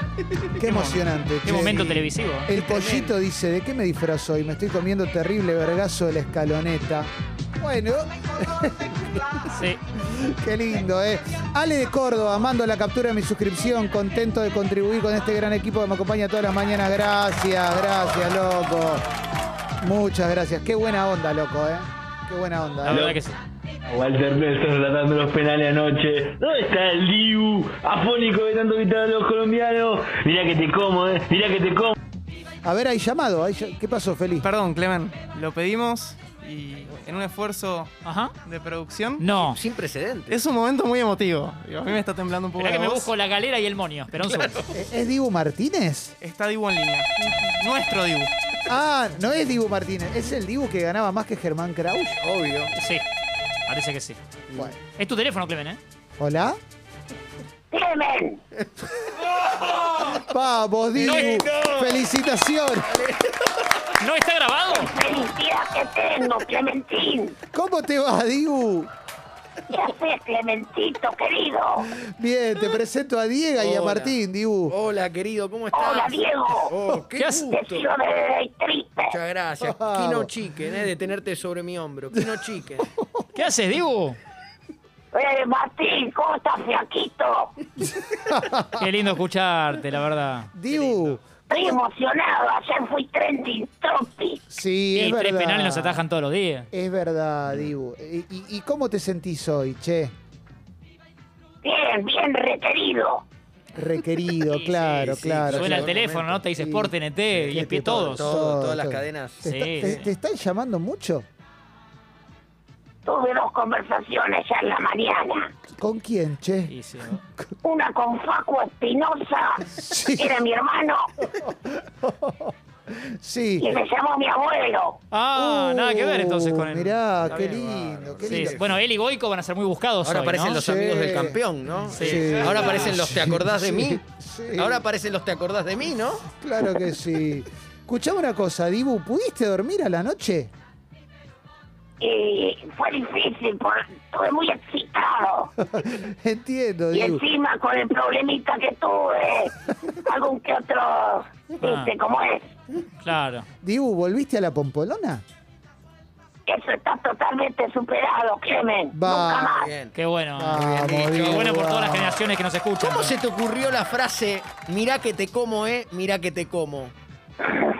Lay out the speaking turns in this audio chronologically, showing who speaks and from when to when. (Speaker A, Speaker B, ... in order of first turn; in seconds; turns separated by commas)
Speaker A: 0.6-7.1, Speaker B: 1.4-2.5, Speaker C: 2.6-3.1, Speaker A: 7.6-9.4, Speaker B: 9.5-9.8, Speaker A: 10.1-19.0, Speaker A: 19.8-23.2, Speaker D: 22.8-23.1, Speaker B: 22.9-23.4, Speaker D: 23.9-31.9, Speaker A: 32.6-34.5, Speaker E: 34.4-39.2, Speaker B: 38.0-38.4, Speaker B: 39.2-39.6, Speaker C: 39.4-40.4, Speaker E: 40.3-43.1, Speaker B: 42.6-44.5, Speaker C: 44.3-44.7, Speaker A: 44.7-46.1, Speaker E: 46.2-48.3, Speaker A: 48.7-52.2, Speaker C: 52.2-52.7, Speaker B: 52.8-53.0, Speaker B: 53.7-54.2, Speaker B: 54.9-55.8, Speaker A: 56.2-56.6, Speaker F: 57.7-58.4, Speaker A: 60.3-62.9, Speaker B: 61.0-61.4, Speaker C: 61.0-62.0, Speaker C: 62.9-63.2, Speaker B: 64.0-64.9, Speaker F: 64.7-67.4, Speaker A: 67.5-68.9, Speaker F: 69.7-71.9, Speaker A: 72.0-74.8, Speaker C: 73.6-74.2, Speaker C: 74.7-77.8, Speaker F: 75.7-76.7, Speaker B: 77.1-77.5, Speaker F: 77.5-79.1, Speaker C: 79.1-82.9, Speaker A: 79.6-80.3, Speaker A: 83.0-83.2, Speaker B: 83.3-84.2, Speaker F: 85.1-87.5, Speaker A: 88.2-88.8, Speaker B: 88.8-91.2, Speaker A: 90.5-91.7, Speaker F: 91.5-94.4, Speaker A: 94.5-96.0, Speaker B: 94.9-96.7, Speaker A: 96.7-100.1, Speaker F: 101.6-103.2, Speaker A: 103.8-106.0, Speaker B: 104.4-108.3, Speaker C: 105.0-106.4, Speaker A: 106.6-107.0, Speaker C: 107.3-110.1, Speaker A: 107.5-111.3, Speaker B: 109.5-110.0, Speaker F: 113.0-115.5, Speaker A: 115.8-116.7, Speaker B: 116.7-117.2, Speaker F: 117.6-121.1, Speaker A: 119.7-120.3, Speaker A: 121.4-122.5, Speaker A: 123.0-123.7, Speaker F: 123.6-125.0, Speaker B: 125.1-127.7, Speaker A: 125.3-128.7, Speaker C: 127.2-128.8, Speaker B: 128.2-130.6, Speaker C: 130.0-134.1, Speaker A: 130.6-134.8, Speaker B: 131.9-133.1, Speaker C: 134.6-136.3, Speaker A: 136.4-140.5, Speaker F: 142.0-145.5, Speaker A: 145.7-147.2, Speaker F: 146.9-149.5, Speaker F: 150.1-152.5, Speaker B: 151.6-151.9, Speaker B: 153.0-153.5, Speaker A: 153.6-155.2, Speaker F: 156.5-159.7, Speaker A: 158.9-159.6, Speaker C: 159.6-160.0, Speaker B: 159.9-163.1, Speaker A: 160.4-162.2, Speaker C: 160.5-161.5, Speaker C: 162.8-166.9